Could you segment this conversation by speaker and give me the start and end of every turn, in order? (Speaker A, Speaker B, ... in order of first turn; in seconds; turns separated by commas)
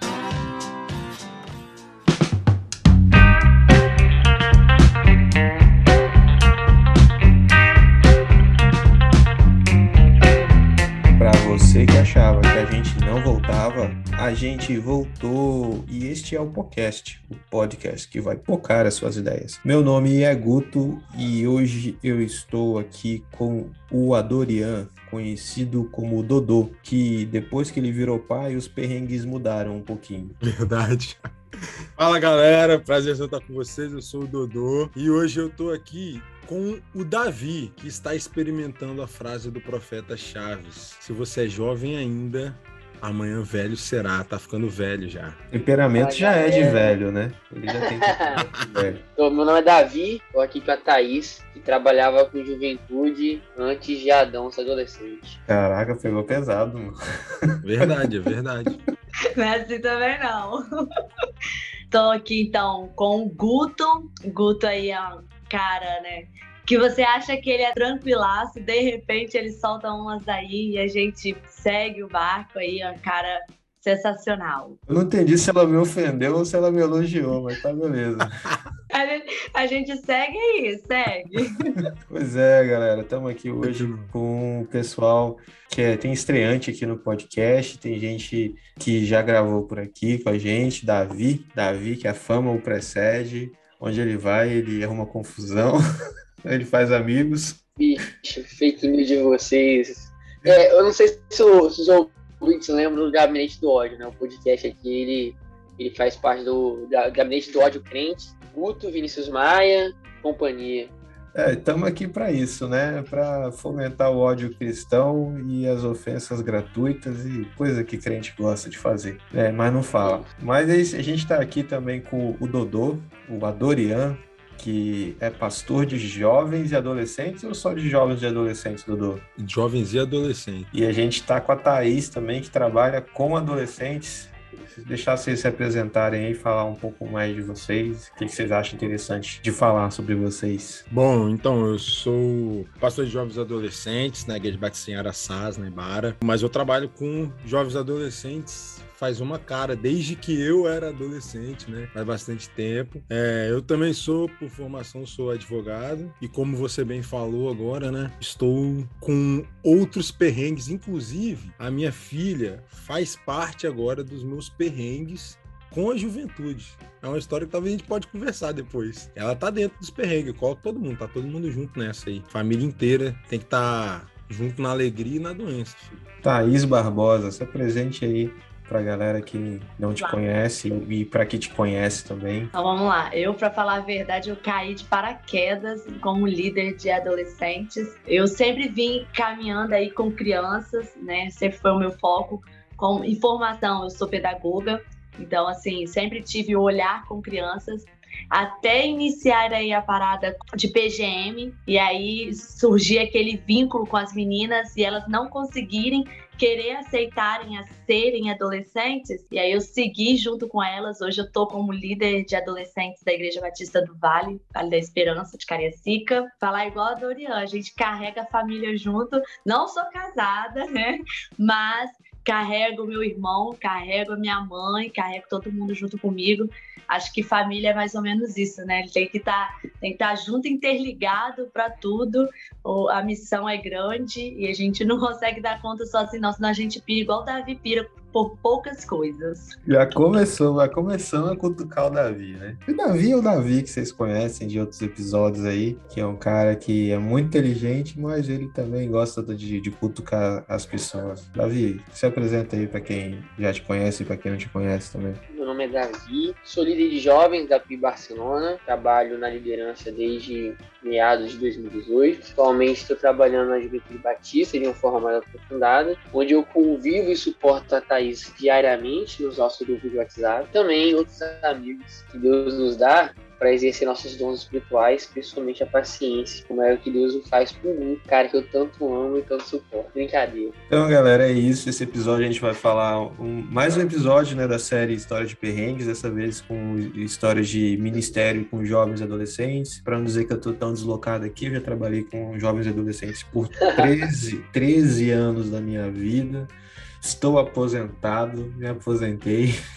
Speaker A: 11.2-30.4, Speaker B: 30.4-31.3, Speaker B: 32.0-45.4, Speaker A: 45.5-49.0, Speaker C: 46.0-47.0, Speaker C: 47.7-48.5, Speaker C: 49.2-55.4, Speaker A: 55.5-57.9, Speaker B: 57.6-58.8, Speaker D: 59.4-60.6, Speaker D: 61.9-74.8, Speaker A: 74.9-78.4, Speaker D: 78.9-81.7, Speaker A: 82.1-95.8, Speaker B: 83.6-84.1, Speaker A: 96.4-97.6, Speaker C: 97.8-110.9, Speaker A: 111.3-129.2, Speaker C: 120.0-120.3, Speaker B: 129.4-130.7, Speaker A: 130.7-140.9, Speaker B: 140.9-176.1, Speaker A: 176.2-182.5, Speaker D: 180.0-180.2, Speaker D: 182.5-239.5, Speaker A: 239.7-255.2, Speaker C: 255.3-280.6, Speaker A: 280.7-299.5